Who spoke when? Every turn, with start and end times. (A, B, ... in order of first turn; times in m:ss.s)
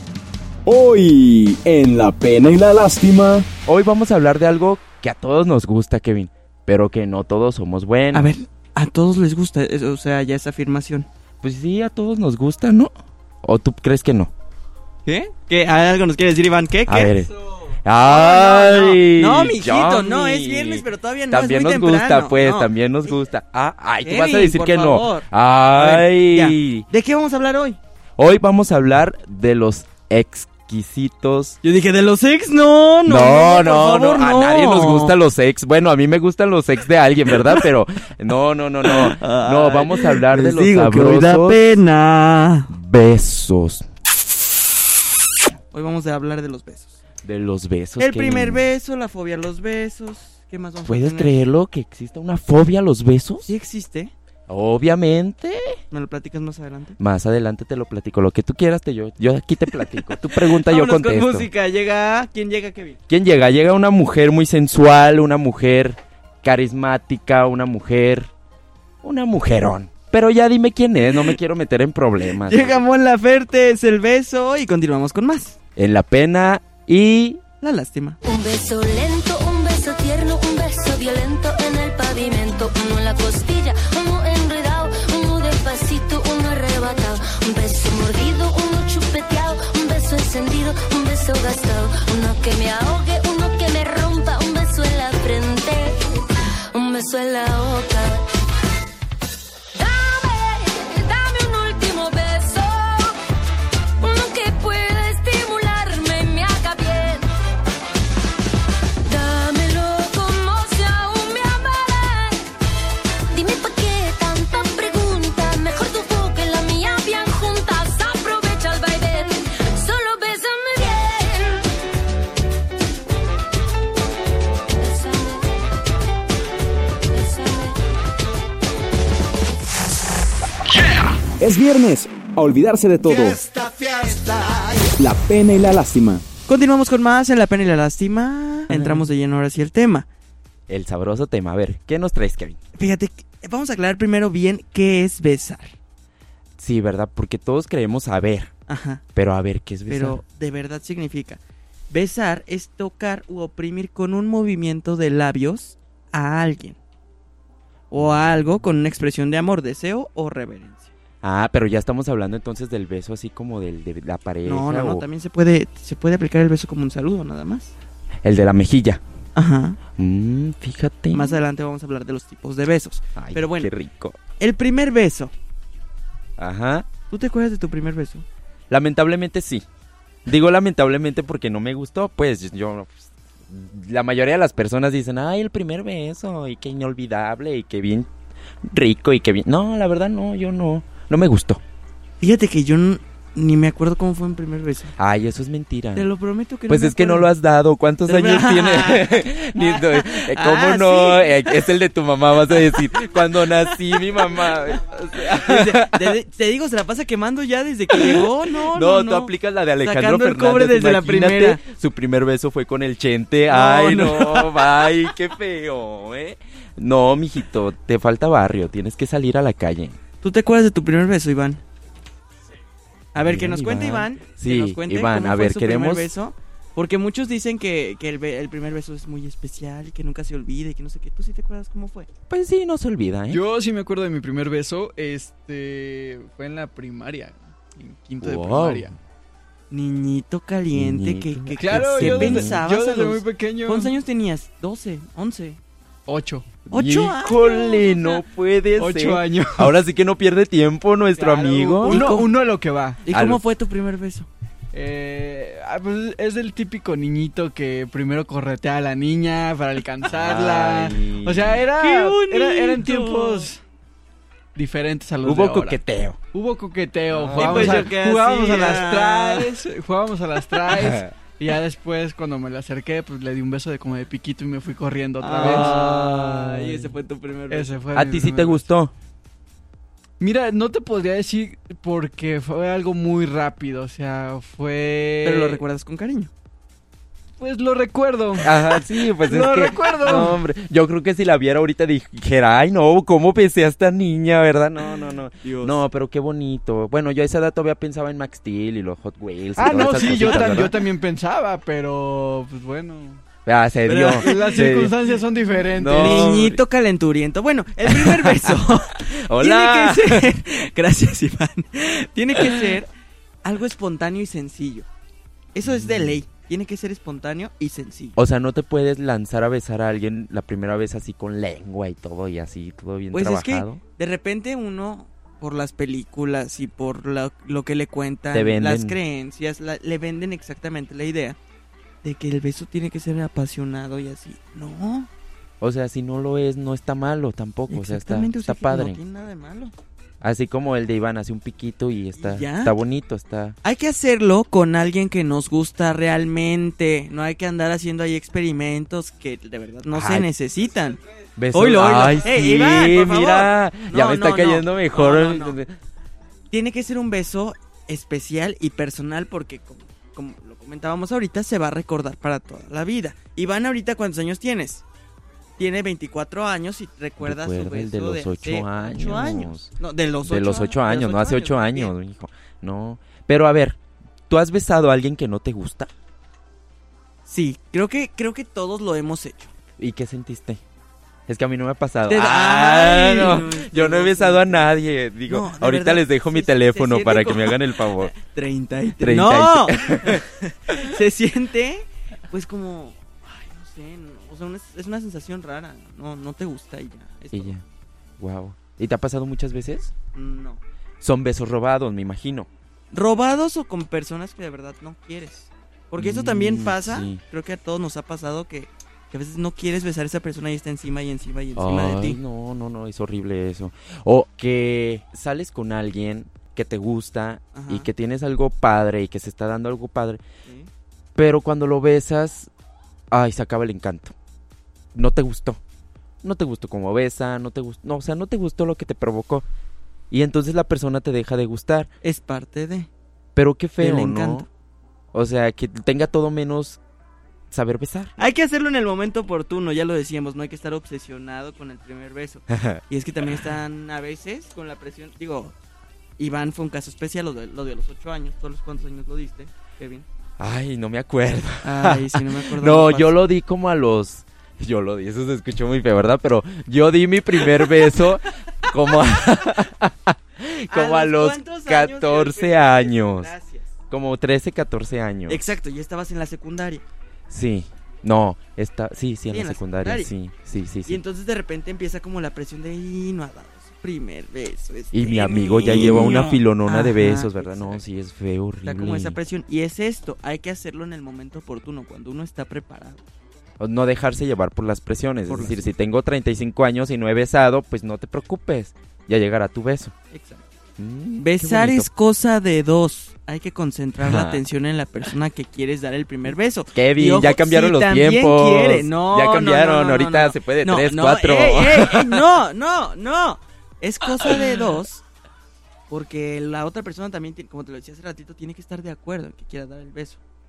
0:00.7-0:03.5 A
0:03.7-0:08.3 B
0:08.1-0:11.1 C
0:11.4-0:14.3 B
0:15.1-0:17.1 C
0:16.9-0:17.3 B
0:17.8-0:26.9 B
0:18.1-0:23.2 C
0:24.0-0:27.8 C
0:28.2-0:31.6 B
0:31.6-0:35.1 C
0:33.1-0:41.6 B
0:38.8-0:42.7 C
0:42.7-0:43.9 B
0:45.7-0:47.0 C
0:47.2-0:48.6 B
0:48.0-0:51.3 C
0:50.9-0:53.5 B
0:53.4-0:54.1 C
0:54.5-0:55.8 B
0:55.9-0:57.0 C
0:57.0-1:01.5 B
1:00.0-1:03.0 C
1:03.1-1:08.3 B
1:09.0-1:12.8 B
1:12.4-1:15.6 C
1:15.8-1:17.4 B
1:17.6-1:18.2 C
1:18.2-1:38.2 D
1:39.8-1:43.2 D
1:44.0-1:47.3 D
1:49.1-1:52.4 D
1:53.3-2:01.7 D
2:04.8-2:05.5 D
2:07.1-2:07.8 D
2:11.4-2:13.4 A
2:15.0-2:16.2 A
2:16.5-2:20.1 C
2:18.7-2:19.1 B
2:20.7-2:22.6 B
2:22.8-2:25.7 C
2:26.6-2:28.5 B
2:28.7-2:29.0 C
2:29.1-2:30.2 B
2:29.9-2:31.4 C
2:31.9-2:36.8 C
2:37.9-2:40.9 C
2:41.2-2:45.0 B
2:44.4-2:47.7 C
2:48.2-2:49.0 B
2:49.4-2:49.8 C
2:50.0-2:51.4 B
2:51.1-2:53.7 C
2:53.2-2:54.2 B
2:54.4-2:55.3 C
2:56.4-2:56.9 B
2:57.1-2:58.3 C
2:58.7-2:59.6 B
3:00.3-3:08.1 B
3:08.6-3:11.6 B
3:12.2-3:15.0 C
3:15.0-3:16.1 B
3:16.0-3:17.3 C
3:16.7-3:26.2 B
3:18.1-3:21.6 C
3:25.3-3:31.6 C
3:27.9-3:40.0 B
3:33.5-3:34.7 C
3:40.2-3:41.6 C
3:43.1-3:52.1 C
3:43.2-3:46.1 B
3:52.3-3:53.4 B
3:53.3-3:59.0 E
3:58.2-3:59.0 B
3:59.7-4:05.6 C
4:00.7-4:02.6 B
4:01.6-4:03.9 E
4:06.1-4:06.6 E
4:06.7-4:12.1 B
4:06.7-4:08.2 C
4:08.8-4:09.7 E
4:11.2-4:13.0 E
4:11.8-4:12.4 C
4:13.0-4:14.3 C
4:13.1-4:13.5 B
4:14.7-4:23.6 E
4:20.1-4:21.6 B
4:21.8-4:23.5 C
4:24.6-4:25.8 E
4:25.2-4:26.2 B
4:26.3-4:36.9 E
4:27.1-4:27.9 B
4:27.3-4:29.5 C
4:30.8-4:31.1 B
4:35.2-4:37.7 C
4:35.4-4:35.7 B
4:37.5-4:38.7 E
4:37.9-4:38.9 B
4:40.2-4:45.6 E
4:45.2-4:46.3 C
4:47.4-4:50.4 E
4:48.4-5:00.8 B
4:55.4-4:55.8 C
4:59.6-5:03.2 E
4:59.7-5:00.6 C
5:03.5-5:04.9 B
5:03.9-5:04.7 C
5:04.0-5:06.3 E
5:05.7-5:06.6 B
5:05.9-5:12.9 C
5:07.9-5:10.3 B
5:12.4-5:12.7 B
5:13.4-5:14.9 C
5:15.5-5:18.2 C
5:15.6-5:16.2 B
5:18.2-5:23.8 B
5:23.1-5:31.4 C
5:28.3-5:29.0 B
5:32.0-5:35.1 C
5:35.6-5:39.0 B
5:37.7-5:39.7 C
5:40.2-5:43.6 B
5:42.2-5:42.8 C
5:43.6-5:51.0 C
5:49.9-5:50.3 B
5:51.4-5:55.7 B
5:51.5-5:55.6 C
5:56.5-6:04.8 C
6:05.6-6:11.9 C
6:07.2-6:09.7 B
6:10.2-6:13.8 B
6:14.3-6:15.9 B
6:17.3-6:19.5 C
6:19.8-6:20.6 B
6:21.3-6:28.1 B
6:22.1-6:24.7 C
6:25.3-6:37.6 C
6:29.0-6:30.2 B
6:37.3-6:37.6 B
6:38.2-6:39.9 B
6:40.1-6:40.6 C
6:41.0-6:42.5 B
6:42.9-6:52.2 C
6:46.0-6:47.2 B
6:51.6-7:00.2 B
6:57.5-6:57.9 C
7:01.2-7:02.5 B
7:03.1-7:04.1 B
7:04.9-7:05.6 B
7:06.2-7:09.5 B
7:10.1-7:11.9 B
7:12.0-7:12.9 C
7:13.4-7:14.5 B
7:13.8-7:14.5 C
7:15.1-7:16.8 B
7:17.5-7:18.2 B
7:18.2-7:25.6 C
7:22.5-7:23.4 B
7:26.2-7:30.1 C
7:30.4-7:43.3 B
7:31.6-7:33.2 C
7:40.7-7:43.7 C
7:43.9-7:45.4 B
7:45.3-7:46.8 C
7:47.3-7:51.0 B
7:49.3-7:50.1 C
7:50.9-7:57.8 C
7:54.9-7:59.2 B
7:58.6-8:03.0 C
8:03.6-8:09.9 B
8:05.3-8:05.7 C
8:10.1-8:10.4 C
8:10.8-8:11.9 B
8:11.2-8:25.0 C
8:14.0-8:14.4 B
8:16.7-8:22.2 B
8:25.9-8:30.2 C